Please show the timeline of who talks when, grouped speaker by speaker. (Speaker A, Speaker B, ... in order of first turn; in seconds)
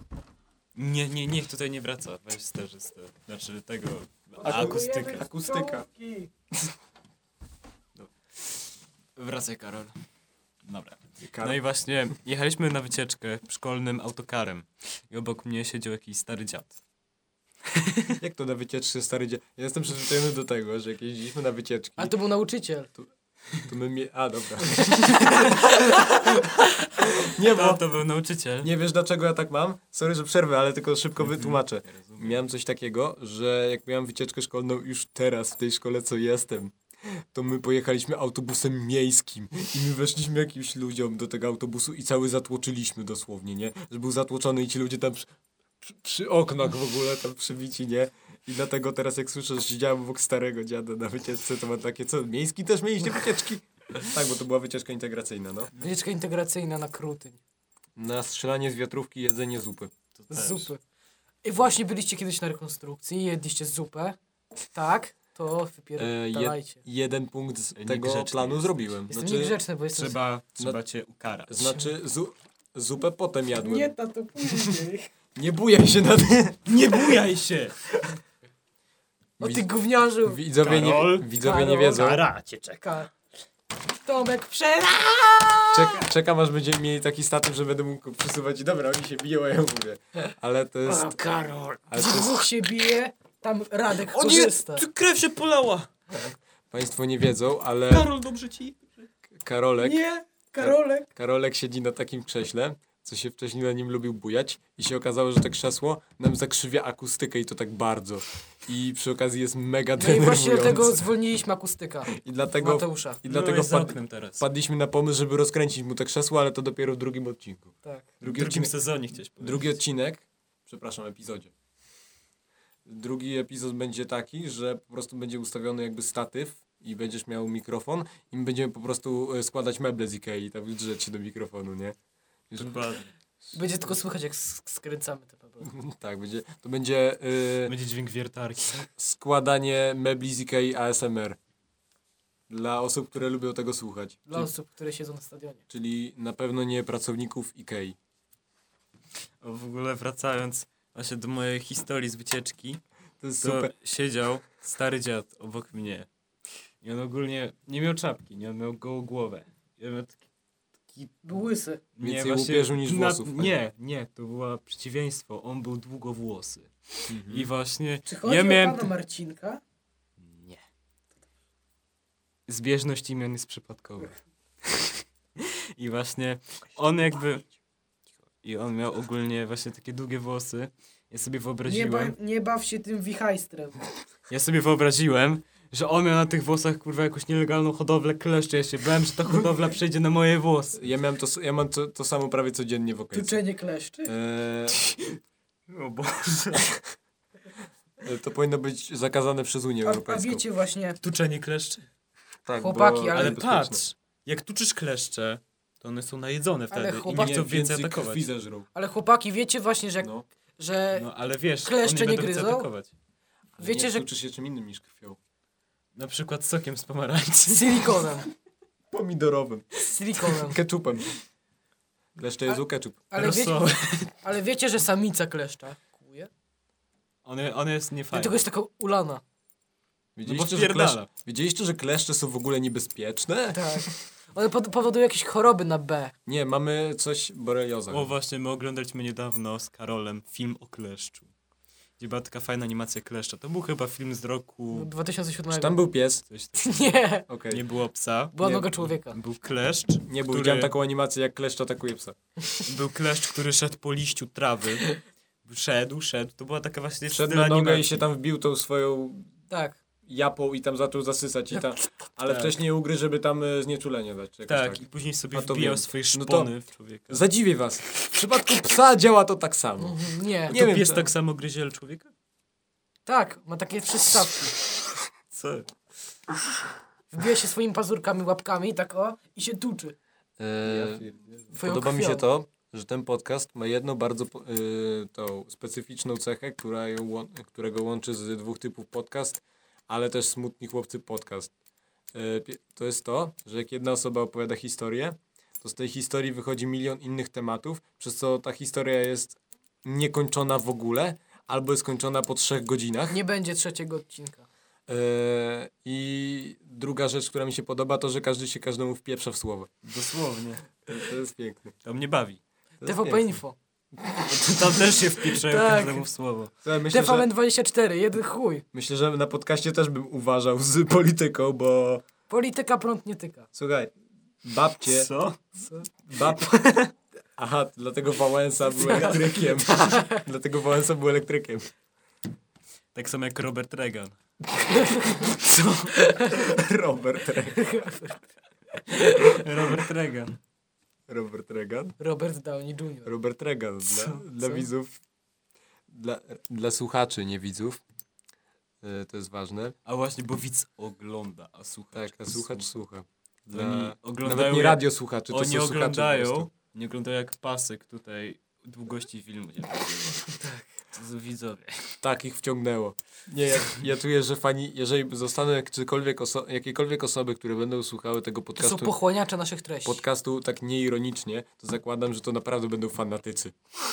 Speaker A: 0.8-5.3, 8.0-10.0, 10.7-16.8, 17.7-18.2, 27.2-28.7, 31.2-32.4, 60.2-60.7, 67.8-68.8, 69.9-71.8, 76.7-78.0, 80.6-82.8, 90.9-91.8, 94.0-95.9, 97.9-99.0, 113.2-114.5, 118.2-119.7, 132.6-133.1, 137.7-138.9, 149.4-152.8, 153.4-156.1, 156.8-160.2, 160.9-161.2, 162.0-168.9, 170.2-170.6, 172.5-177.5, 178.4-182.2, 184.3-190.8, 195.7-196.8, 201.0-201.8, 203.1-208.2, 210.9-212.9, 215.9-218.2, 223.2-224.1, 227.2-228.4, 230.3-231.1, 237.9-241.3, 242.0-244.9, 246.3-246.9, 247.5-250.7, 252.7-258.0, 262.3-262.5, 264.5-267.2, 270.5-272.1, 275.3-275.7, 280.6-281.3, 309.8-310.7, 311.9-312.4, 314.2-316.5, 324.9-325.4, 326.3-326.9, 328.8-329.6, 332.9-334.1, 335.3-335.9, 339.2-340.4, 343.9-344.2, 349.9-352.6, 353.5-362.0
Speaker B: 4.4-5.9, 11.2-11.6, 18.1-22.1, 23.7-25.7, 27.2-27.9, 28.6-45.3, 45.8-55.7, 58.0-59.9, 66.0-69.6, 71.5-74.8, 75.3-77.2, 79.4-79.7, 80.2-82.3, 85.7-91.2, 91.9-92.4, 96.7-98.1, 99.3-100.0, 100.6-111.1, 112.1-118.7, 119.4-121.5, 122.8-132.0, 132.5-133.0, 135.7-137.8, 139.0-141.4, 142.5-144.5, 145.7-148.0, 153.2-153.7, 162.0-163.6, 167.1-167.5, 190.8-193.4, 194.1-195.2, 198.0-200.4, 202.4-203.8, 207.1-208.7, 213.6-215.2, 218.9-221.2, 222.2-223.1, 230.2-234.0, 236.3-238.1, 245.5-246.3, 247.3-247.6, 248.4-248.7, 250.1-252.2, 257.1-259.3, 260.1-266.5, 267.1-271.1, 280.4-291.5, 292.1-303.2, 304.9-309.7, 310.9-311.8, 312.8-313.4, 316.6-317.3, 318.7-322.1, 323.5-323.9, 324.4-325.1, 326.0-326.6, 327.4-331.7, 336.3-337.7, 341.1-342.0, 343.1-345.0, 345.9-347.8, 348.8-349.8, 351.9-356.5, 362.0-369.0, 369.9-373.6
Speaker C: 4.4-6.3, 22.0-22.9, 24.8-25.6, 55.8-57.4, 60.3-60.8, 61.4-66.8, 69.1-70.2, 73.5-75.1, 79.4-80.4, 81.3-82.2, 82.8-83.1, 84.0-85.7, 92.0-94.9, 99.8-101.1, 110.0-113.2, 117.8-118.1, 133.5-135.7, 144.3-145.6, 161.2-161.8, 168.1-169.6, 181.7-183.8, 193.1-194.1, 199.8-201.0, 202.6-203.4, 206.7-207.5, 208.7-211.1, 211.6-212.7, 213.6-214.1, 217.5-218.3, 219.8-220.6, 223.1-226.3, 228.1-229.2, 233.5-236.2, 244.7-245.8, 246.6-247.3, 248.3-249.2, 259.5-259.8, 269.8-270.6, 273.1-274.5, 277.1-280.0, 281.5-282.3, 303.1-304.5, 312.8-313.6, 315.4-316.1, 316.9-318.6, 322.3-323.5, 328.9-329.2, 329.7-330.2, 334.6-336.5, 337.5-338.2, 338.8-339.6, 342.0-343.1, 368.6-370.0